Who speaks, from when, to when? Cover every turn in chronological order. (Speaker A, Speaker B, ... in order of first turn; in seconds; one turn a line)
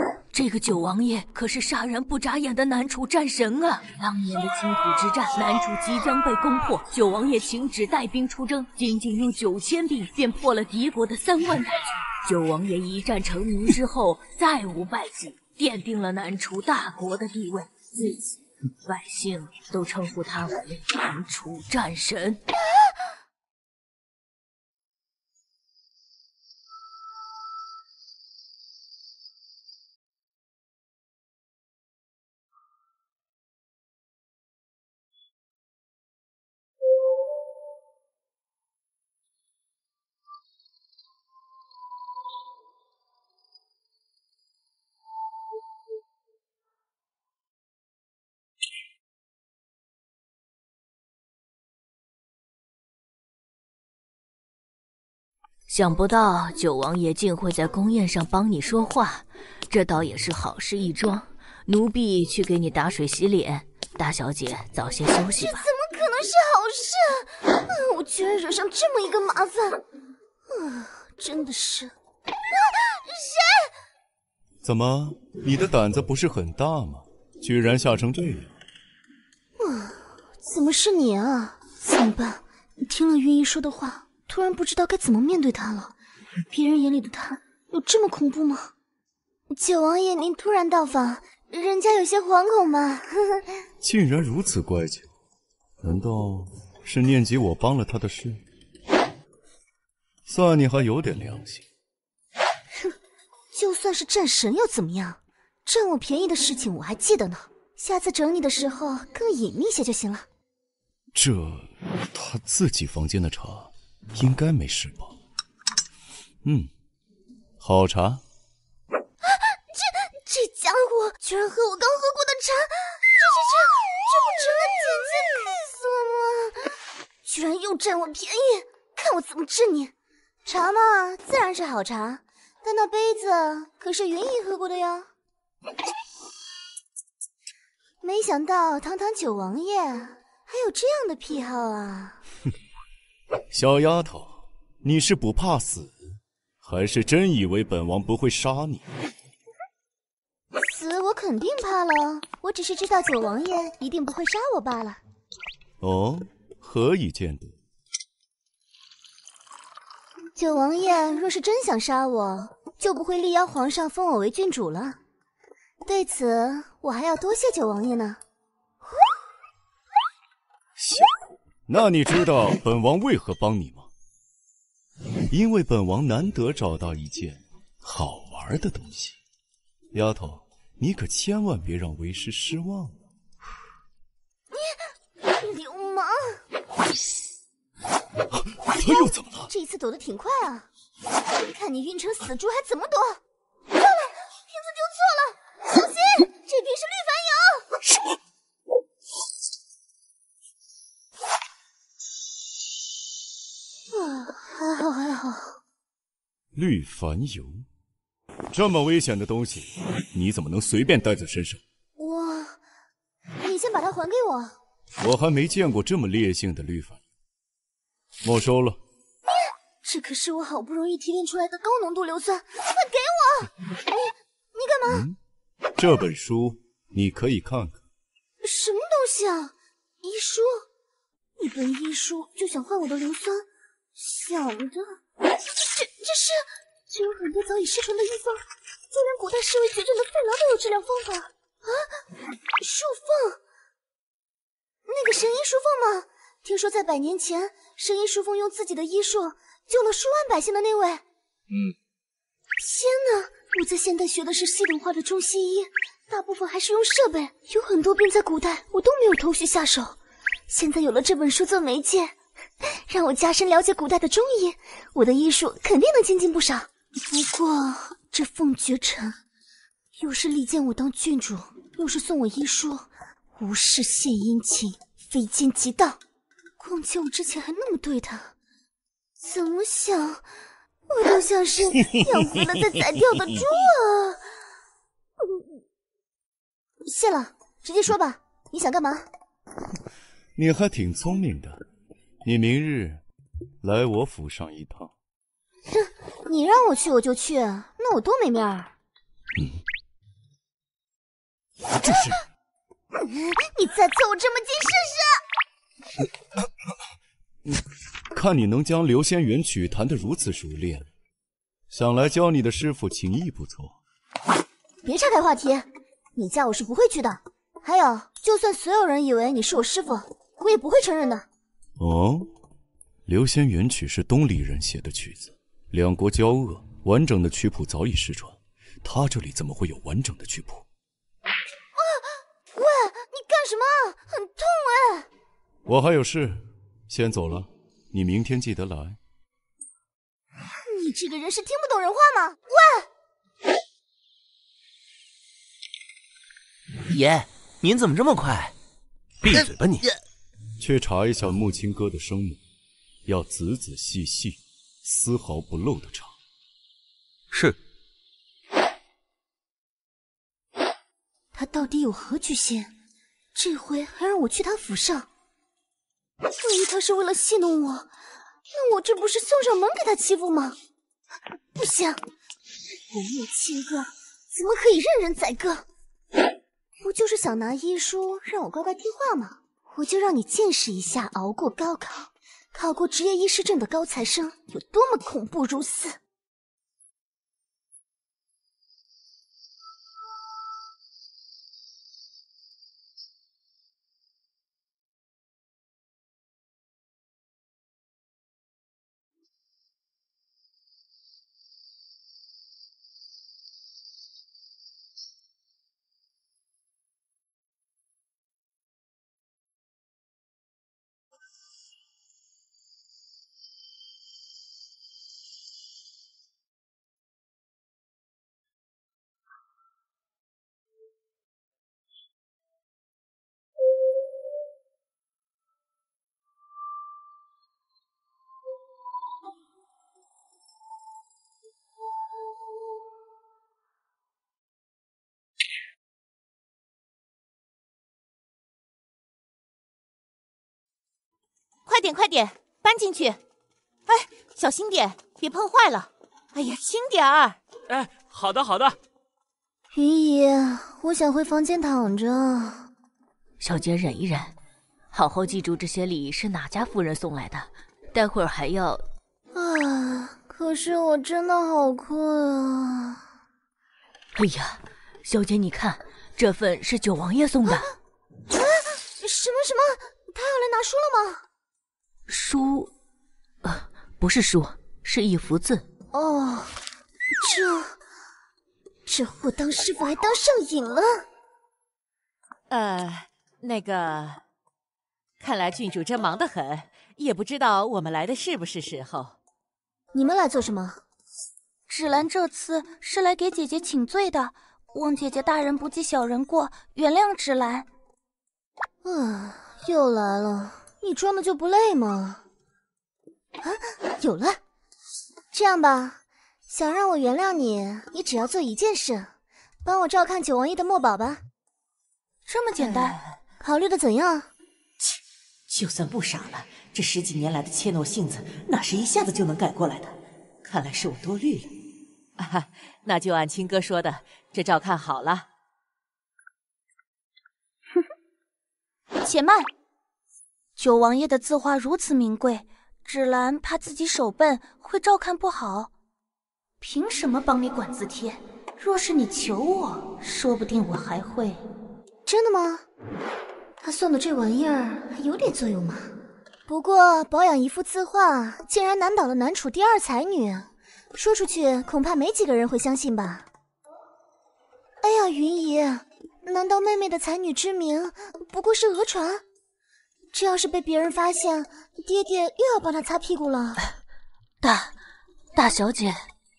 Speaker A: 0.3-18.2
Speaker A: 18.8-22.4
Speaker A: 55.7-65.7
Speaker B: 65.4-69.8
Speaker B: 70.5-71.9
Speaker B: 72.5-73.7
Speaker C: 74.6-78.5
Speaker B: 79.6-85.9
Speaker B: 86.5-88.7
Speaker B: 89.5-93.5
Speaker C: 93.8-95.1
Speaker C: 95.8-98.4
Speaker C: 100.2-101.6
Speaker B: 103.5-110.2
Speaker C: 111.1-115.2
Speaker C: 116.4-116.7
Speaker C: 117.6-118.2
Speaker B: 119.2-126.7
Speaker B: 127.2-129.9
Speaker B: 130.4-135.1
Speaker B: 138.0-142.2
Speaker C: 143.5-145.9
Speaker C: 146.6-148.8
Speaker B: 150.6-155.0
Speaker C: 155.8-157.5
Speaker B: 160.3-165.0
Speaker B: 165.8-168.2
Speaker B: 168.8-169.1
Speaker C: 170.8-171.1
Speaker C: 171.7-173.9
Speaker C: 175.3-179.2
Speaker C: 179.9-183.0
Speaker B: 184.5-186.4
Speaker C: 188.7-189.5
Speaker B: 188.8-190.7
Speaker B: 191.3-197.7
Speaker B: 203.9-205.6
Speaker C: 206.5-207.7
Speaker C: 208.5-211.6
Speaker B: 212.0-212.6
Speaker B: 213.4-214.6
Speaker C: 215.0-217.0
Speaker C: 218.2-218.8
Speaker B: 219.3-225.0
Speaker C: 224.8-225.2
Speaker C: 225.8-227.8
Speaker B: 228.4-230.6
Speaker B: 231.4-233.4
Speaker B: 233.9-235.0
Speaker B: 235.5-242.0
Speaker B: 242.6-243.4
Speaker B: 244.8-251.0
Speaker B: 252.6-260.0
Speaker B: 260.5-269.1
Speaker B: 270.0-276.0
Speaker B: 276.6-278.3
Speaker B: 279.2-280.2
Speaker B: 280.9-284.2
Speaker B: 286.9-289.1
Speaker C: 290.4-291.6
Speaker C: 292.2-293.0
Speaker C: 293.6-294.9
Speaker B: 295.7-298.7
Speaker C: 299.4-299.6
Speaker C: 301.8-302.1
Speaker B: 301.8-302.2
Speaker B: 302.9-305.2
Speaker C: 307.4-310.9
Speaker C: 311.7-313.8
Speaker B: 314.8-321.2
Speaker C: 321.8-322.3
Speaker C: 323.1-330.6
Speaker B: 331.7-335.1
Speaker C: 335.6-339.0
Speaker B: 340.6-342.9
Speaker D: 346.9-348.5
Speaker E: 349.2-349.8
Speaker D: 349.3-349.9
Speaker C: 350.6-352.4
Speaker C: 353.1-356.1
Speaker E: 357.3-357.6
Speaker B: 361.3-362.7
Speaker B: 363.3-365.1
Speaker B: 366.4-367.9
Speaker B: 368.5-370.6
Speaker B: 371.5-372.0
Speaker B: 372.9-375.6
Speaker B: 376.8-386.0
Speaker A: 441.6-443.2
Speaker A: 443.9-447.4
Speaker E: 447.7-448.8
Speaker B: 449.7-452.6
Speaker A: 453.4-454.4
Speaker A: 454.9-458.8
Speaker B: 459.3-463.0
Speaker A: 464.1-467.7
Speaker B: 468.3-471.2
Speaker A: 472.1-472.7
Speaker A: 473.4-475.6
Speaker B: 475.9-476.5
Speaker B: 477.2-477.8
Speaker B: 478.9-481.0
Speaker F: 482.5-484.2
Speaker F: 485.2-489.2
Speaker B: 489.9-490.8
Speaker G: 491.7-497.7
Speaker B: 498.8-502.2
Speaker B: 503.4-504.4
Speaker B: 505.3-511.2
Speaker G: 512.2-513.0
Speaker F: 512.6-513.1
Speaker B: 513.4-514.3
Speaker F: 515.5-521.5
Speaker F: 522.2-525.3
Speaker G: 529.0-529.5
Speaker G: 530.6-535.7
Speaker G: 536.6-541.4
Speaker B: 542.0-542.6
Speaker B: 543.6-545.9
Speaker B: 546.5-553.2
Speaker B: 554.8-559.2
Speaker B: 560.1-563.6
Speaker A: 564.4-564.8
Speaker A: 565.3-566.0